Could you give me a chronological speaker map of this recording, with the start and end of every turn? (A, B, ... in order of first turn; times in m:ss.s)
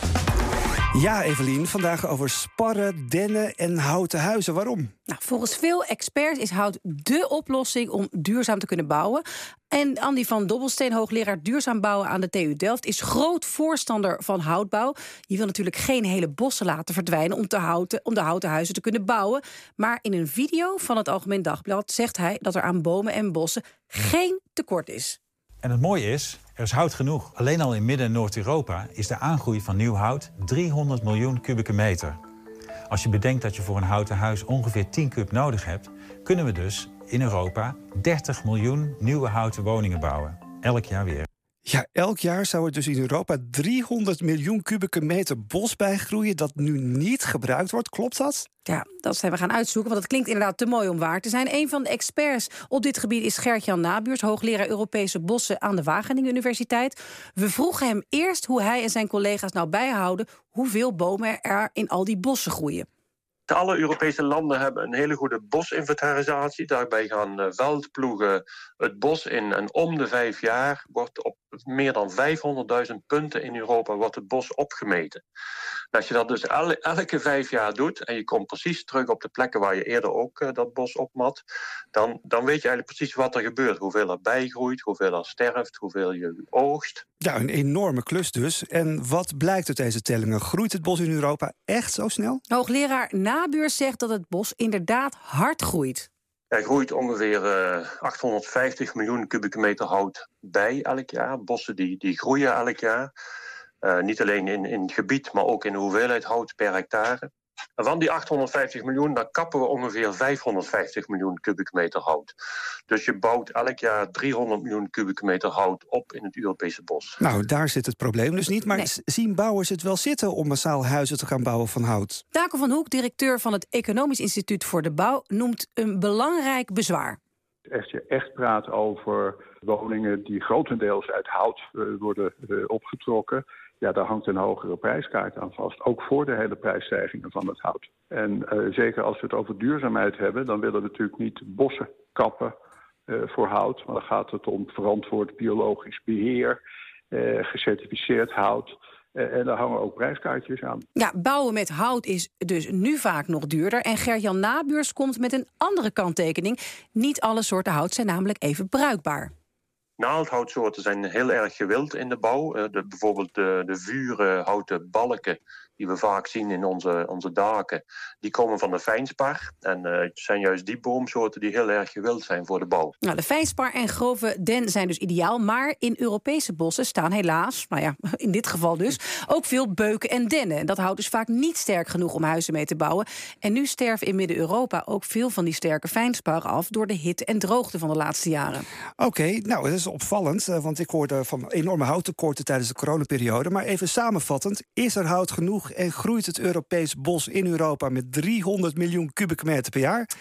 0:01.0-0:04.9 A
0:05.1-0:25.2 B
0:25.6-0:32.2 C
0:32.9-0:41.3 C
0:41.7-0:48.5 A
0:48.7-1:02.9 B
1:03.5-1:15.2 D
1:15.9-1:27.0 D
1:27.2-1:32.4 A
1:32.5-1:36.1 B
1:36.5-1:43.1 D
1:43.8-1:47.3 D
1:47.8-1:52.3 D
1:52.9-1:57.2 D
1:57.2-2:02.2 A
2:02.3-2:07.2 B
2:07.7-2:22.5 E
2:23.1-2:30.8 E
2:31.0-2:39.3 B
2:40.0-2:53.0 D
2:53.0-3:08.7 B
3:09.0-3:20.1 A